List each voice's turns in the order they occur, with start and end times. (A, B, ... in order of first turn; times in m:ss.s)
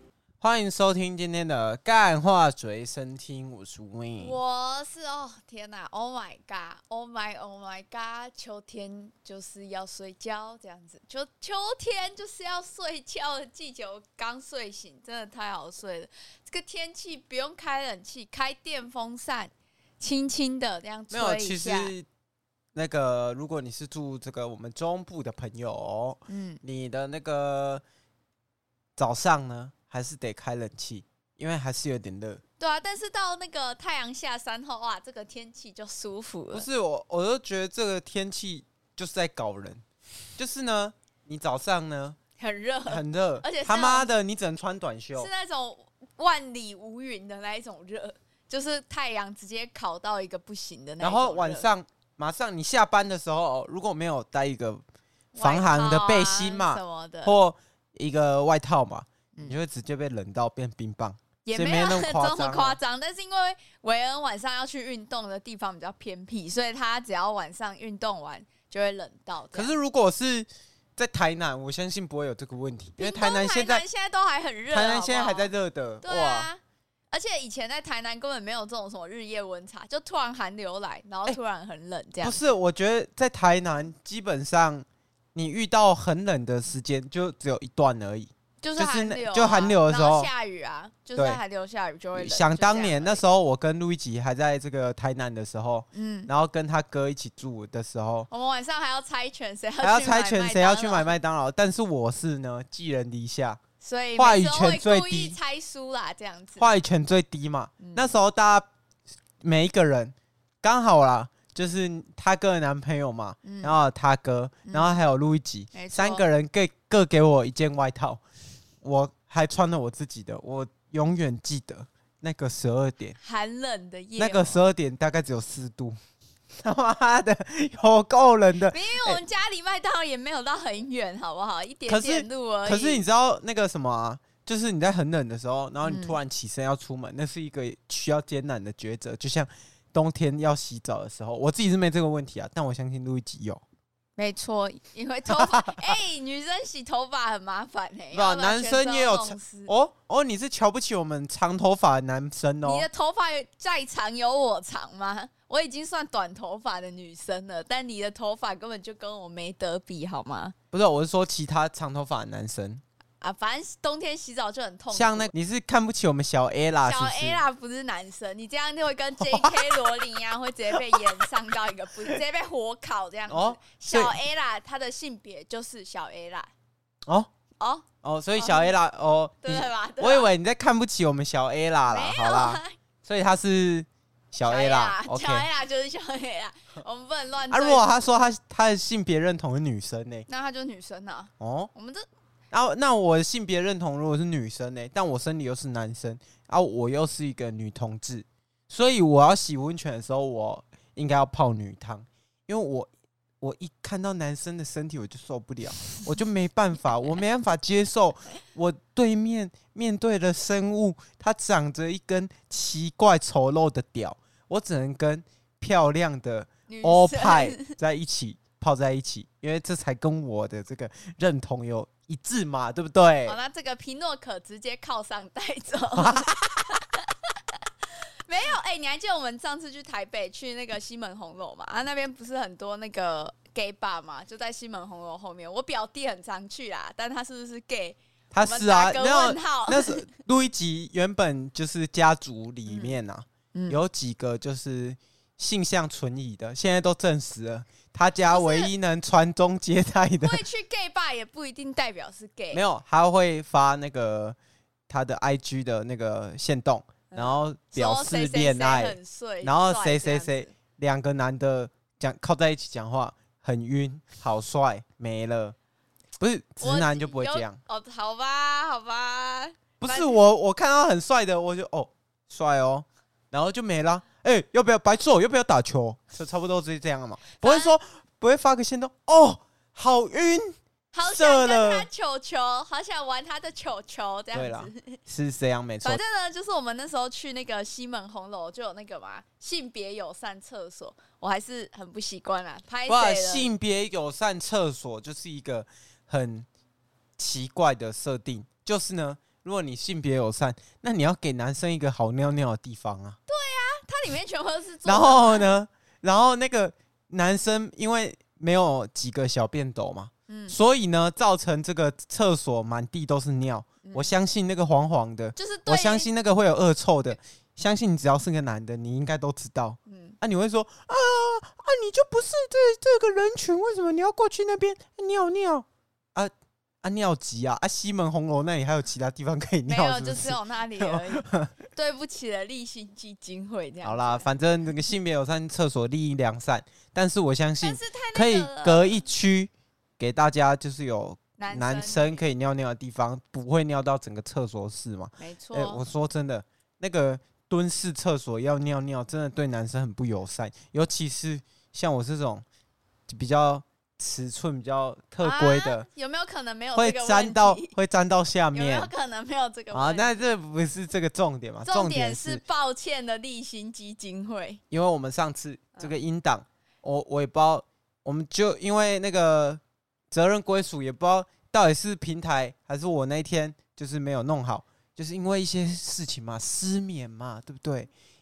0:00.4-0:04.4 A
0:04.2-0:21.9 B
0:21.1-0:22.0 A
0:22.7-0:27.8 A
0:26.3-0:26.6 B
0:29.0-0:32.4 A
0:32.6-0:36.7 B
0:36.5-0:39.8 A
0:40.4-0:42.2 A
0:42.4-0:44.1 B
0:42.9-0:45.3 A
0:45.1-0:51.6 B
0:51.0-0:54.8 A
0:55.3-0:57.3 B
0:55.4-1:02.8 A
1:01.4-1:09.7 B
1:09.5-1:13.8 A
1:13.0-1:15.5 B
1:14.7-1:16.5 A
1:16.0-1:22.4 B
1:22.2-1:30.3 A
1:28.6-1:33.2 B
1:31.1-1:31.4 A
1:32.1-1:38.3 A
1:35.9-1:36.3 B
1:38.3-1:41.1 B
1:39.8-1:43.6 A
1:43.8-1:46.6 B
1:44.2-1:45.4 A
1:46.6-1:48.6 A
1:47.8-1:48.1 B
1:49.4-1:58.2 A
1:53.4-1:53.8 B
1:54.6-1:55.0 B
1:55.7-1:56.2 B
1:58.8-2:03.2 A
2:03.2-2:04.6 B
2:04.2-2:06.0 A
2:06.6-2:09.2 A
2:08.7-2:13.0 B
2:11.9-2:23.6 A
2:15.8-2:16.2 B
2:24.2-2:29.7 B
2:25.3-2:25.9 A
2:28.1-2:32.8 A
2:32.6-2:40.5 B
2:40.7-2:42.8 A
2:43.2-2:45.3 B
2:44.9-2:47.4 A
2:46.8-2:56.5 B
2:49.2-2:50.0 A
2:50.7-2:51.3 A
2:53.3-2:54.2 A
2:57.6-2:58.8 B
2:58.0-3:05.5 A
2:59.4-3:00.3 B
3:01.9-3:02.7 B
3:04.5-3:07.8 B
3:07.5-3:10.2 A
3:10.3-3:12.0 B
3:11.4-3:11.7 A
3:12.5-3:22.9 A
3:23.4-3:43.4 A
3:36.7-3:37.7 B
3:43.2-3:47.7 B
3:45.9-3:46.4 A
3:48.3-4:00.0 B
3:58.3-4:10.4 A
4:02.7-4:02.9 B
4:03.5-4:03.8 B
4:08.3-4:08.7 B
4:10.2-4:12.6 B
4:12.5-4:14.4 A
4:14.9-4:25.6 A
4:17.1-4:20.5 B
4:26.2-4:27.6 A
4:26.6-4:30.2 B
4:29.8-4:41.9 A
4:37.4-4:37.7 B
4:40.9-4:45.0 B
4:44.3-4:46.0 A
4:45.8-4:53.5 B
4:52.9-4:56.5 A
4:57.2-5:03.2 A
5:03.3-5:05.5 B
5:04.8-5:26.3 A
5:10.3-5:10.6 B
5:13.8-5:14.1 B
5:15.4-5:16.1 B
5:19.9-5:20.2 B
5:26.8-5:31.5 A
5:29.7-5:34.3 B
5:33.8-5:52.4 A
5:37.6-5:39.0 B
5:41.4-5:42.2 B
5:45.2-5:45.8 B
5:53.1-5:55.8 A
5:55.2-5:57.7 B
5:56.7-5:58.9 A
5:58.5-6:00.1 B
5:59.7-6:02.4 A
6:01.6-6:04.6 B
6:04.7-6:17.9 A